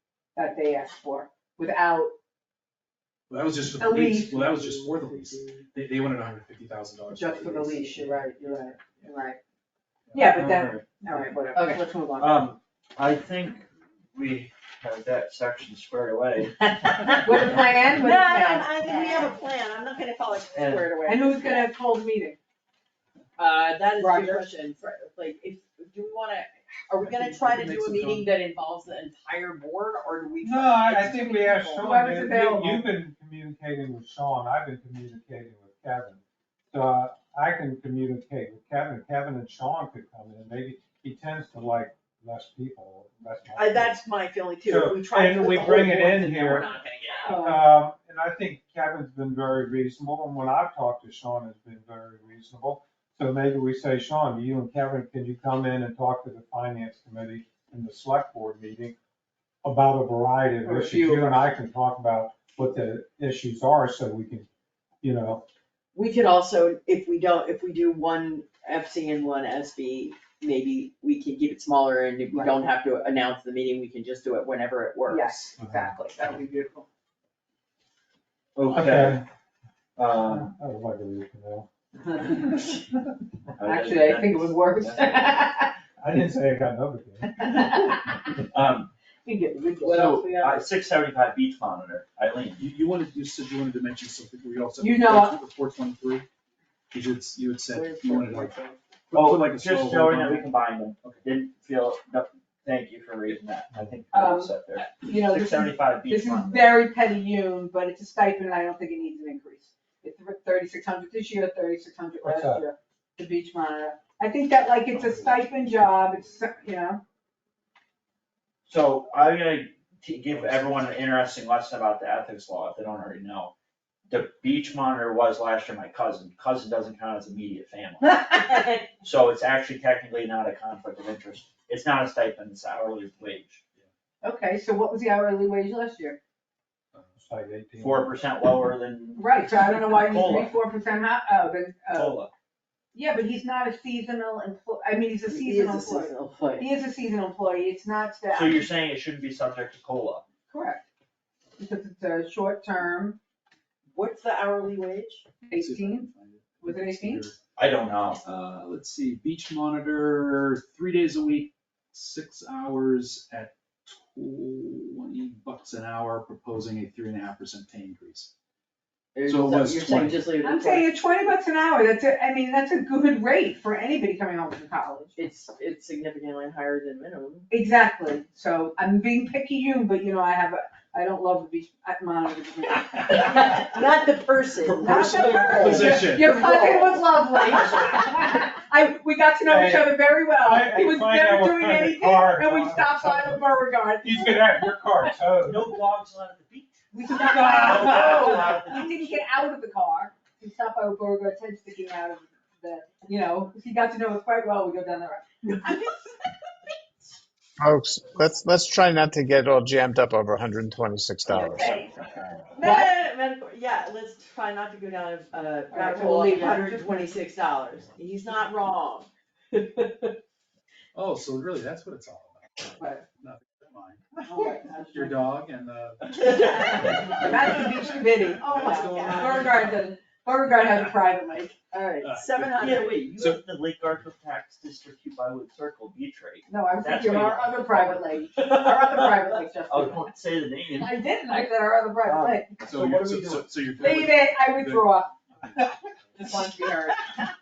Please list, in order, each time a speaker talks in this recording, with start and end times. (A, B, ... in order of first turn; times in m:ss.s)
0:00.4-0:02.1 A
0:03.3-0:09.1 B
0:03.8-0:04.5 A
0:04.4-0:05.6 C
0:07.1-0:09.4 A
0:08.0-0:09.4 C
0:10.1-0:10.8 B
0:10.1-0:12.4 A
0:11.5-0:11.8 C
0:12.2-0:17.6 D
0:16.9-0:21.7 C
0:17.1-0:19.4 A
0:20.5-0:20.9 D
0:21.0-0:22.4 A
0:23.4-0:31.9 C
0:24.0-0:24.4 A
0:27.0-0:28.3 B
0:30.4-0:44.0 E
0:31.8-0:32.9 A
0:43.5-0:47.1 C
0:44.6-0:46.7 E
0:46.6-0:47.3 D
0:47.2-0:47.6 A
0:47.2-0:59.0 E
0:59.6-1:04.5 E
1:00.6-1:01.5 A
1:05.0-1:05.4 E
1:05.9-1:15.4 C
1:12.3-1:12.6 A
1:15.1-1:16.9 A
1:15.6-1:15.9 E
1:18.6-1:19.2 D
1:18.7-1:19.2 E
1:20.0-1:20.5 D
1:20.2-1:21.7 E
1:22.0-1:22.8 A
1:23.6-1:25.3 D
1:23.6-1:25.8 A
1:26.0-1:27.4 E
1:27.4-1:28.0 A
1:28.5-1:28.9 D
1:29.2-1:30.0 A
1:29.8-1:30.6 C
1:29.9-1:32.6 D
1:29.9-1:30.3 B
1:32.6-1:36.3 B
1:34.8-1:35.4 A
1:36.9-1:40.5 B
1:37.7-1:38.8 C
1:39.1-1:46.7 D
1:44.1-1:57.0 A
1:52.2-1:52.6 E
1:58.7-2:03.5 D
2:04.1-2:08.4 D
2:08.4-2:08.9 C
2:09.0-2:13.6 D
2:14.2-2:16.2 A
2:17.2-2:18.1 E
2:17.8-2:20.5 D
2:19.1-2:22.2 A
2:21.9-2:22.3 D
2:22.9-2:28.7 A
2:25.3-2:26.7 C
2:28.3-2:30.2 D
2:30.5-2:30.8 A
2:31.6-2:33.2 A
2:33.9-2:35.3 C
2:35.4-2:37.3 A
2:35.5-2:37.4 B
2:37.6-2:38.2 D
2:38.2-2:48.3 B
2:49.1-2:50.9 C
2:49.2-2:50.3 B
2:50.4-2:55.1 A
2:55.2-2:57.5 C
2:57.5-3:03.7 A
3:03.1-3:07.9 C
3:04.6-3:05.9 D
3:04.8-3:15.1 A
3:04.9-3:06.4 B
3:09.5-3:13.4 E
3:14.0-3:15.7 E
3:15.4-3:19.2 D
3:16.9-3:26.0 A
3:27.6-3:31.9 F
3:31.3-3:31.9 A
3:32.5-3:40.2 C
3:32.6-3:32.9 A
3:35.7-3:37.2 A
3:40.9-3:47.6 B
3:42.8-3:43.0 A
3:44.2-3:45.1 A
3:46.2-3:46.6 C
3:46.5-3:51.6 A
3:48.4-3:49.8 B
3:48.4-3:49.6 C
3:51.7-3:53.1 C
3:52.0-3:53.4 B
3:52.5-3:58.0 D
3:56.5-4:00.1 A
3:59.6-4:01.0 D
4:00.7-4:02.6 A
4:02.0-4:03.6 D
4:02.6-4:05.7 B
4:03.8-4:07.2 A